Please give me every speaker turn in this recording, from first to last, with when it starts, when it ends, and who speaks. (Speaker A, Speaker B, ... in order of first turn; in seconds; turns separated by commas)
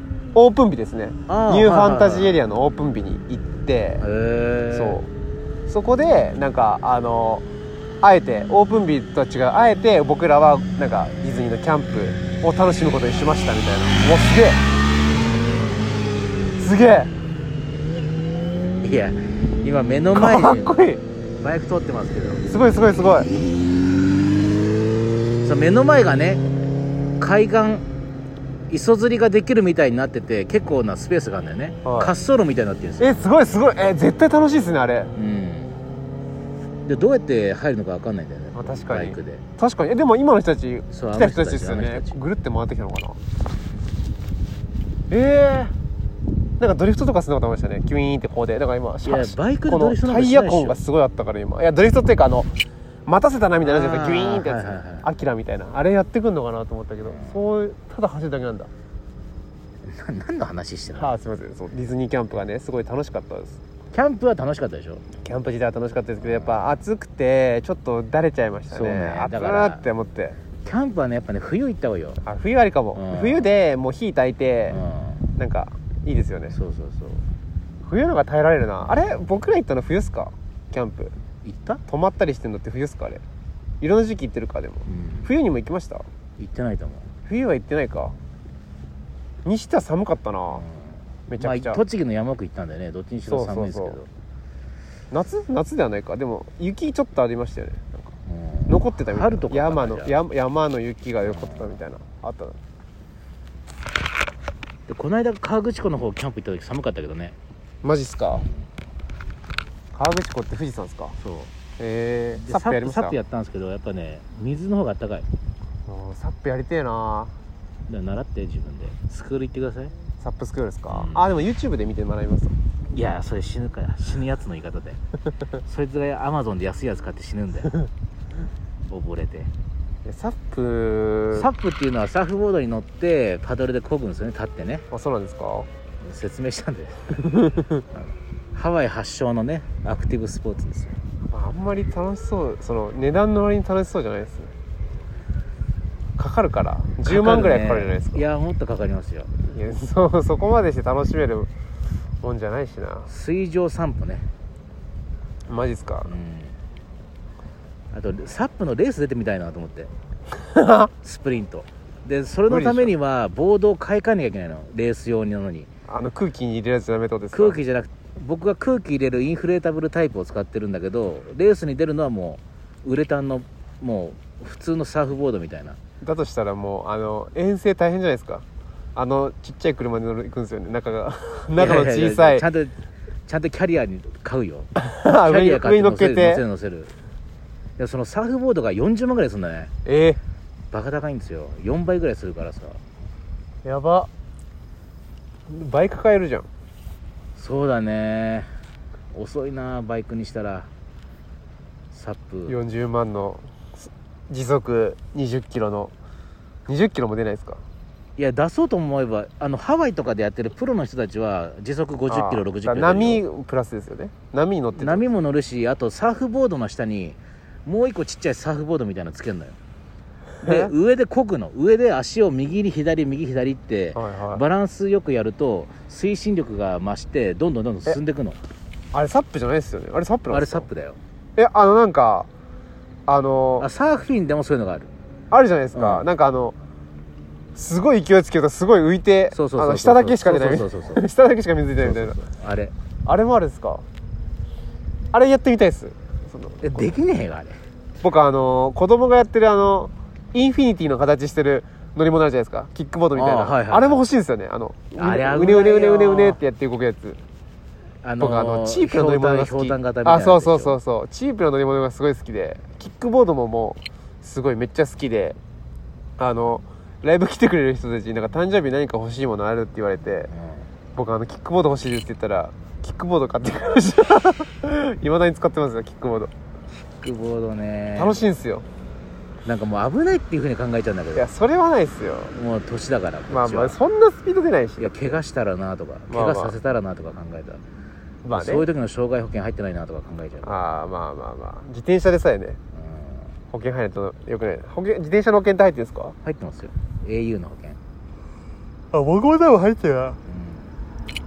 Speaker A: 0.3-4.0, Speaker B: 1.3-2.4, Speaker B: 4.0-5.0, Speaker A: 4.7-5.1, Speaker A: 5.7-7.5, Speaker A: 8.0-14.6, Speaker A: 16.6-17.1, Speaker B: 18.8-20.7, Speaker A: 20.1-21.0, Speaker B: 21.4-22.5, Speaker A: 22.5-23.3, Speaker B: 25.4-26.4, Speaker B: 27.2-27.9, Speaker B: 28.7-33.2, Speaker A: 31.8-32.1, Speaker A: 33.0-35.1, Speaker B: 35.1-35.7, Speaker B: 36.9-39.4, Speaker A: 38.5-43.2, Speaker B: 40.9-42.2, Speaker A: 45.1-45.7, Speaker A: 46.6-52.5, Speaker B: 49.0-50.8, Speaker A: 53.1-58.7, Speaker B: 53.6-55.1, Speaker B: 57.0-57.4, Speaker B: 59.9-61.1, Speaker A: 61.0-63.6, Speaker B: 63.9-65.0, Speaker A: 65.2-70.4, Speaker B: 66.2-66.8, Speaker B: 68.7-69.8, Speaker B: 70.6-72.2, Speaker A: 72.2-74.8, Speaker B: 73.0-73.5, Speaker B: 74.7-75.3, Speaker A: 75.4-76.6, Speaker B: 76.5-77.3, Speaker A: 77.8-81.1, Speaker B: 81.4-81.8, Speaker A: 81.9-83.2, Speaker A: 83.8-86.1, Speaker B: 84.9-85.3, Speaker B: 86.4-87.1, Speaker A: 87.3-88.2, Speaker A: 89.5-90.7, Speaker B: 90.5-94.1, Speaker A: 91.3-91.8, Speaker A: 93.3-94.0, Speaker A: 95.1-98.1, Speaker B: 98.3-100.2, Speaker A: 98.7-102.6, Speaker B: 101.2-101.7, Speaker B: 104.9-107.4, Speaker A: 107.8-108.5, Speaker B: 108.3-108.6, Speaker A: 109.9-111.2, Speaker B: 111.2-111.5, Speaker A: 111.8-113.2, Speaker B: 112.3-115.3, Speaker A: 115.9-117.3, Speaker B: 117.9-119.9, Speaker A: 120.2-122.5, Speaker B: 120.9-121.3, Speaker B: 122.9-125.0, Speaker B: 125.6-127.7, Speaker B: 128.8-129.5, Speaker A: 130.1-131.5, Speaker B: 131.3-134.9, Speaker A: 134.9-135.7, Speaker B: 136.0-137.2, Speaker A: 137.2-137.8, Speaker B: 137.9-141.0, Speaker A: 141.3-144.5, Speaker A: 146.2-148.3, Speaker B: 147.1-149.3, Speaker A: 149.4-151.5, Speaker A: 152.2-153.1, Speaker B: 153.1-154.3, Speaker A: 155.5-156.2, Speaker B: 156.1-156.6, Speaker B: 157.9-159.9, Speaker A: 160.5-160.9, Speaker B: 161.0-165.7, Speaker A: 162.5-162.9, Speaker A: 165.9-167.6, Speaker B: 167.3-175.8, Speaker A: 176.0-178.4, Speaker A: 179.0-182.4, Speaker B: 181.6-182.8, Speaker B: 183.3-186.9, Speaker A: 184.8-186.4, Speaker B: 187.8-189.7, Speaker A: 189.8-190.2, Speaker B: 190.7-192.8, Speaker A: 193.7-194.1, Speaker A: 195.5-196.5, Speaker B: 197.4-198.5, Speaker B: 199.1-200.7, Speaker B: 201.9-202.6, Speaker A: 202.5-205.9, Speaker A: 206.7-207.6, Speaker B: 208.2-213.2, Speaker A: 212.1-215.1, Speaker B: 214.8-219.6, Speaker B: 220.4-228.4, Speaker A: 220.4-220.7, Speaker A: 223.9-224.4, Speaker A: 228.9-230.7, Speaker B: 230.3-231.0, Speaker A: 231.4-232.3, Speaker A: 233.1-233.7, Speaker B: 233.6-234.9, Speaker A: 235.3-236.6, Speaker B: 235.7-236.1, Speaker A: 237.6-242.2, Speaker B: 239.3-241.1, Speaker B: 241.8-242.7, Speaker A: 243.1-243.8, Speaker A: 245.1-247.0, Speaker B: 246.6-247.6, Speaker A: 248.0-257.2, Speaker B: 253.1-254.0, Speaker B: 254.9-256.4, Speaker B: 258.0-260.8, Speaker A: 258.2-265.4, Speaker A: 266.2-270.3, Speaker B: 270.3-270.7, Speaker A: 270.9-276.3, Speaker B: 276.9-278.2, Speaker A: 278.0-278.7, Speaker B: 279.4-281.3, Speaker A: 281.1-282.4, Speaker B: 282.3-283.8, Speaker A: 283.3-285.2, Speaker B: 284.8-287.6, Speaker A: 286.1-286.6, Speaker A: 288.2-288.7, Speaker B: 288.3-290.6, Speaker A: 290.4-292.6, Speaker B: 292.7-293.3, Speaker A: 293.5-296.2, Speaker B: 296.2-297.8, Speaker A: 298.9-300.2, Speaker B: 300.3-300.7